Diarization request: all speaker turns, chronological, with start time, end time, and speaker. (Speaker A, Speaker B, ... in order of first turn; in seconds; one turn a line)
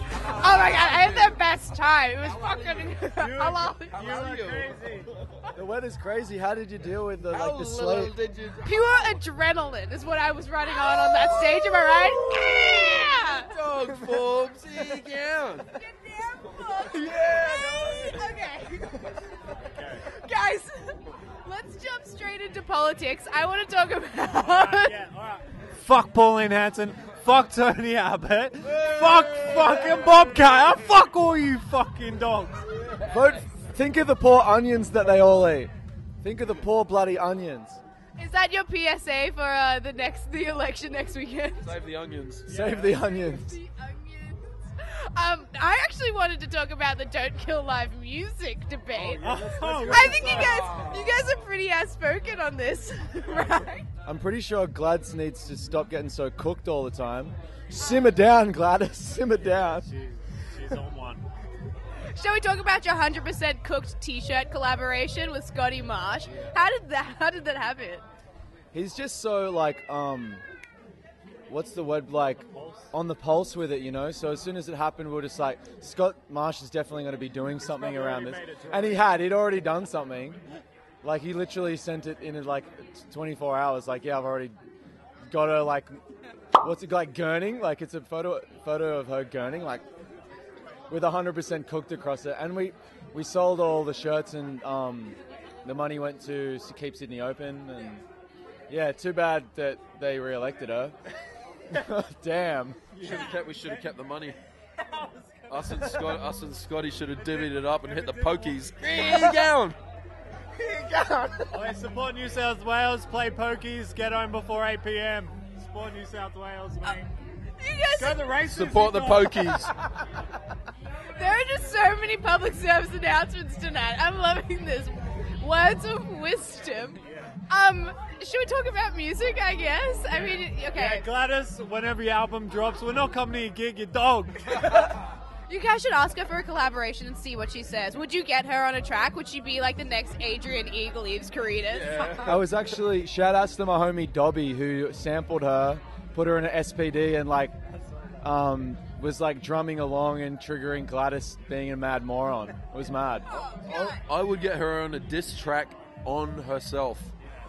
Speaker A: 0.2-4.1
Speaker B: 3.2-5.1
Speaker C: 3.9-5.1
Speaker D: 5.5-8.2
Speaker C: 7.3-8.7
Speaker A: 8.6-13.5
Speaker C: 12.2-15.7
Speaker A: 15.8-19.2
Speaker C: 16.9-18.3
Speaker B: 19.6-20.1
Speaker A: 20.1-25.0
Speaker B: 24.4-32.7
Speaker C: 28.7-29.4
Speaker D: 33.0-37.8
Speaker A: 38.2-41.8
Speaker C: 41.6-42.5
Speaker B: 42.5-43.0
Speaker D: 42.5-43.6
Speaker A: 42.8-53.9
Speaker B: 49.2-50.7
Speaker C: 49.2-50.9
Speaker D: 54.0-59.9
Speaker B: 59.5-61.3
Speaker A: 62.1-68.0
Speaker D: 68.7-70.4
Speaker D: 71.5-80.4
Speaker B: 72.5-72.9
Speaker B: 77.6-79.2
Speaker D: 81.0-84.5
Speaker D: 85.3-86.0
Speaker D: 86.6-89.8
Speaker D: 90.9-98.0
Speaker D: 98.7-101.0
Speaker D: 101.7-102.8
Speaker B: 102.9-103.8
Speaker C: 103.0-104.4
Speaker B: 104.8-106.1
Speaker C: 105.5-109.8
Speaker B: 107.2-109.3
Speaker C: 110.7-111.1
Speaker D: 110.7-111.4
Speaker B: 111.5-117.1
Speaker A: 117.6-118.2
Speaker B: 118.0-119.7
Speaker C: 118.5-119.8
Speaker A: 121.2-131.1
Speaker B: 130.7-134.9
Speaker A: 135.5-142.2
Speaker C: 141.7-142.4
Speaker D: 142.2-147.6
Speaker D: 148.2-153.4
Speaker A: 153.3-154.0
Speaker C: 153.7-157.1